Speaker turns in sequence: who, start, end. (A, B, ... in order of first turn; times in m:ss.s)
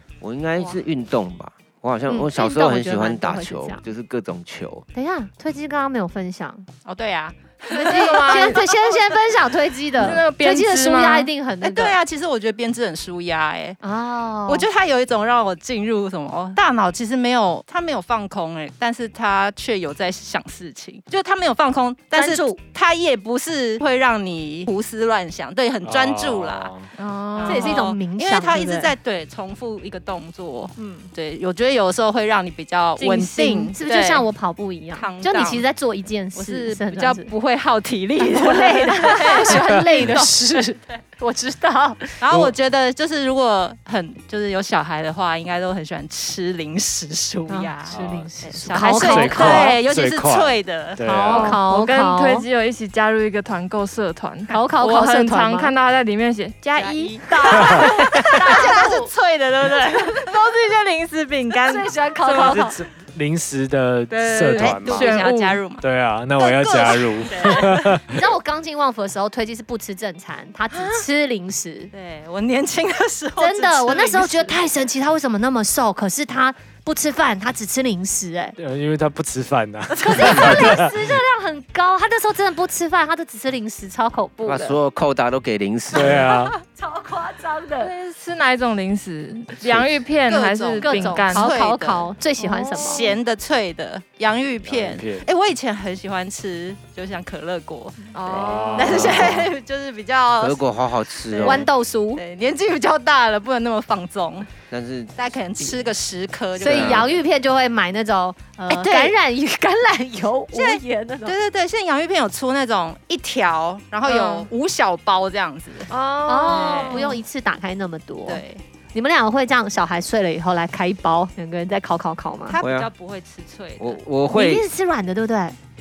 0:00.2-0:04.8 A
0:02.1-0:03.8 B
0:04.9-0:06.7 B
0:06.8-0:09.0 C
0:07.7-0:08.7 D
0:07.7-0:12.0 B
0:10.0-0:11.3 D
0:11.6-0:13.8 C
0:13.8-0:14.7 B
0:14.5-0:26.7 C
0:22.1-0:22.6 B
0:25.8-0:26.9 E
0:27.0-0:27.8 D
0:27.4-0:34.3 C
0:27.5-0:28.9 B
0:30.8-0:31.1 B
0:33.0-0:33.8 D
0:33.7-0:37.3 B
0:35.0-0:35.7 C
0:36.4-0:40.4 C
0:38.2-0:42.2 B
0:42.2-0:51.0 C
0:47.5-0:49.8 B
0:47.9-0:48.3 E
0:48.9-0:51.6 E
0:51.0-0:52.5 B
0:51.3-0:58.8 D
0:54.5-0:55.7 B
0:56.8-1:00.3 C
0:57.4-0:59.1 B
1:00.1-1:02.7 D
1:01.6-1:02.8 B
1:02.4-1:05.3 E
1:04.2-1:05.6 D
1:04.2-1:05.8 C
1:05.8-1:08.2 E
1:06.4-1:11.9 B
1:07.0-1:08.0 C
1:11.9-1:14.6 C
1:13.4-1:18.6 B
1:18.6-1:20.9 E
1:20.0-1:24.8 B
1:20.1-1:20.4 C
1:24.4-1:26.3 A
1:25.9-1:26.5 E
1:26.3-1:27.9 B
1:27.8-1:31.5 D
1:30.3-1:32.1 C
1:30.8-1:33.2 B
1:32.4-1:33.1 D
1:32.7-1:38.1 C
1:34.6-1:35.3 E
1:38.1-1:39.3 D
1:38.3-1:39.5 E
1:38.7-1:40.6 C
1:40.4-1:41.7 A
1:41.3-1:44.5 C
1:41.4-1:42.2 B
1:44.7-1:45.9 A
1:45.2-1:47.1 C
1:46.6-1:51.4 B
1:46.6-1:47.1 A
1:48.7-1:49.2 C
1:50.5-1:57.2 C
1:54.0-1:54.5 D
1:55.9-1:57.2 D
1:56.3-2:02.6 B
1:58.3-1:58.6 C
2:02.5-2:04.0 C
2:02.6-2:02.9 A
2:03.8-2:04.7 A
2:04.3-2:05.6 B